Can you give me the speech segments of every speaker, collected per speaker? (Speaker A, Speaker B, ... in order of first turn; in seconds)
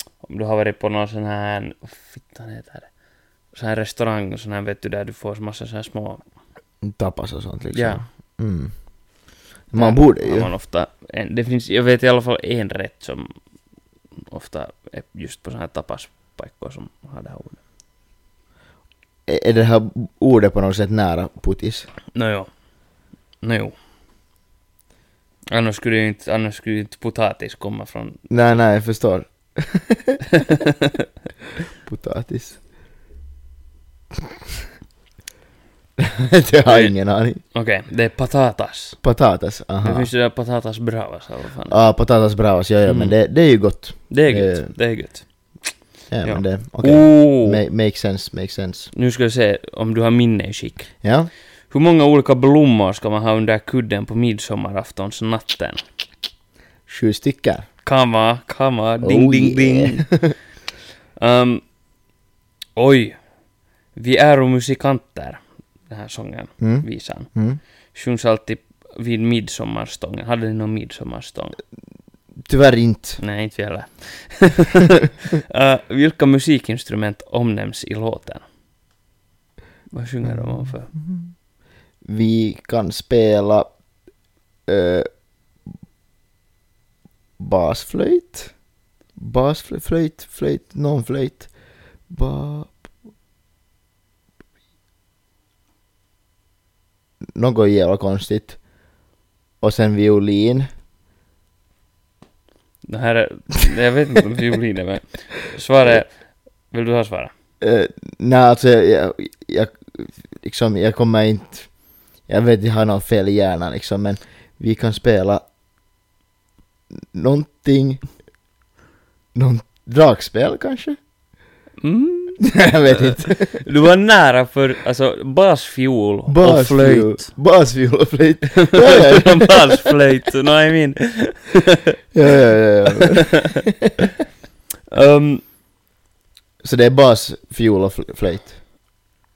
Speaker A: 0.2-2.9, 3.5-6.3, 7.7-8.1, 9.7-13.3, 14.3-17.6, 22.1-22.5, 23.4-23.7, 25.5-28.2, 30.4-30.9, 36.6-39.0, 39.8-41.8, 42.8-43.2, 44.1-47.6, 48.9-51.0, 51.6-55.8, 57.8-60.1, 61.2-61.6, 62.8-63.2, 63.9-67.3, 67.9-71.6, 73.2-78.4, 79.9-80.9, 102.8-107.3, 121.8-127.3, 128.6-131.9, 134.9-135.4
Speaker B: 6.8-8.9, 9.7-10.5, 19.3-21.9, 28.3-30.2, 31.8-32.6, 36.0-37.4, 39.0-40.1, 41.7-44.7, 46.1-48.9, 51.0-51.3, 56.9-57.6, 59.0-60.3, 66.6-67.6, 72.4-73.2, 80.2-81.3, 82.0-83.7, 84.7-85.1, 87.4-88.5, 89.2-91.5, 92.1-92.8, 97.3-98.6, 99.6-100.7, 107.6-111.7, 112.2-115.4, 117.1-118.1, 119.3-121.0, 122.4-123.6, 126.3-129.9, 132.1-133.9, 136.6-138.6